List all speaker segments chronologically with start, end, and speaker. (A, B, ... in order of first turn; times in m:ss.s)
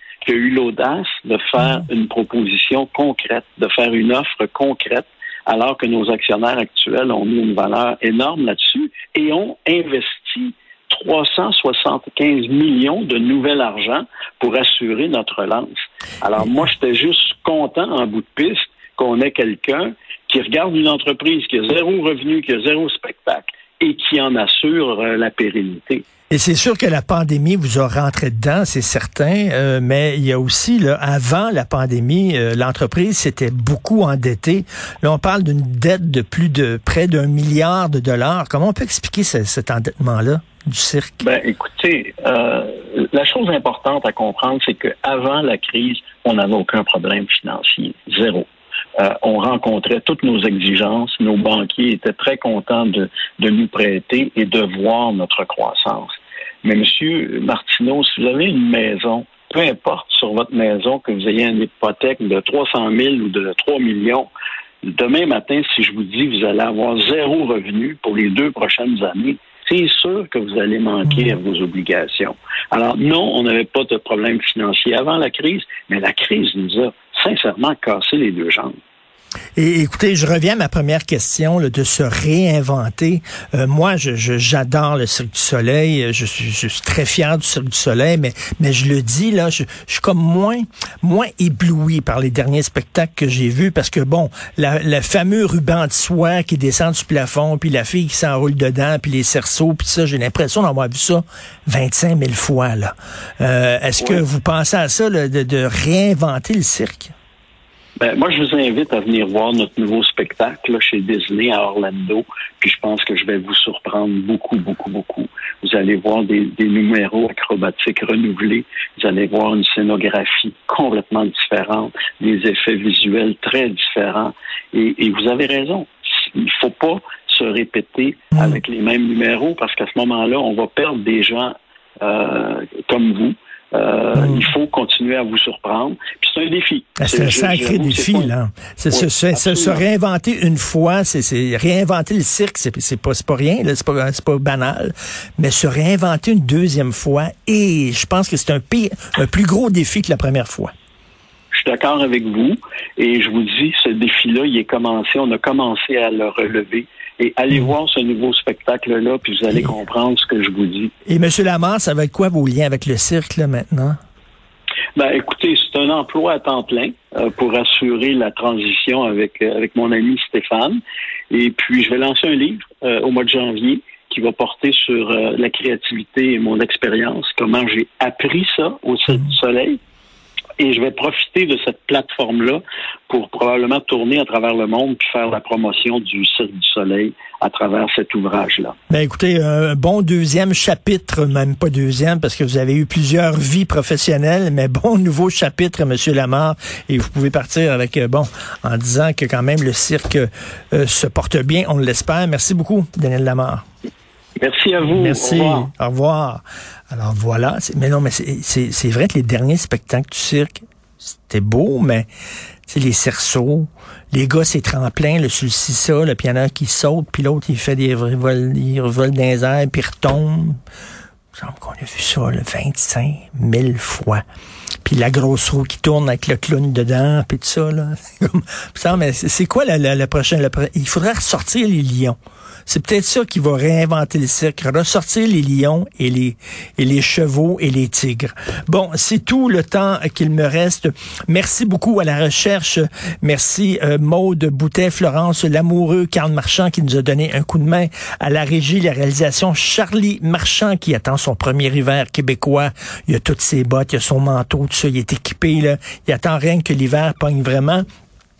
0:00.2-0:15.7 A
0:16.2-0:26.0 A
0:26.3-0:41.2 B
0:41.2-1:04.3 A
1:04.8-1:18.8 A
1:19.6-1:47.1 B
1:48.0-2:18.3 A
2:08.3-2:08.6 B
2:17.0-2:30.7 B
2:18.9-2:19.8 A
2:31.5-2:40.9 A
2:41.1-2:44.0 B
2:45.0-2:50.8 A
2:51.3-2:59.8 A
3:00.6-3:08.8 A
3:08.9-3:23.6 B
3:24.4-3:25.7 A
3:24.8-3:32.1 B
3:32.7-3:40.6 B
3:41.4-3:44.2 B
3:44.8-4:17.8 B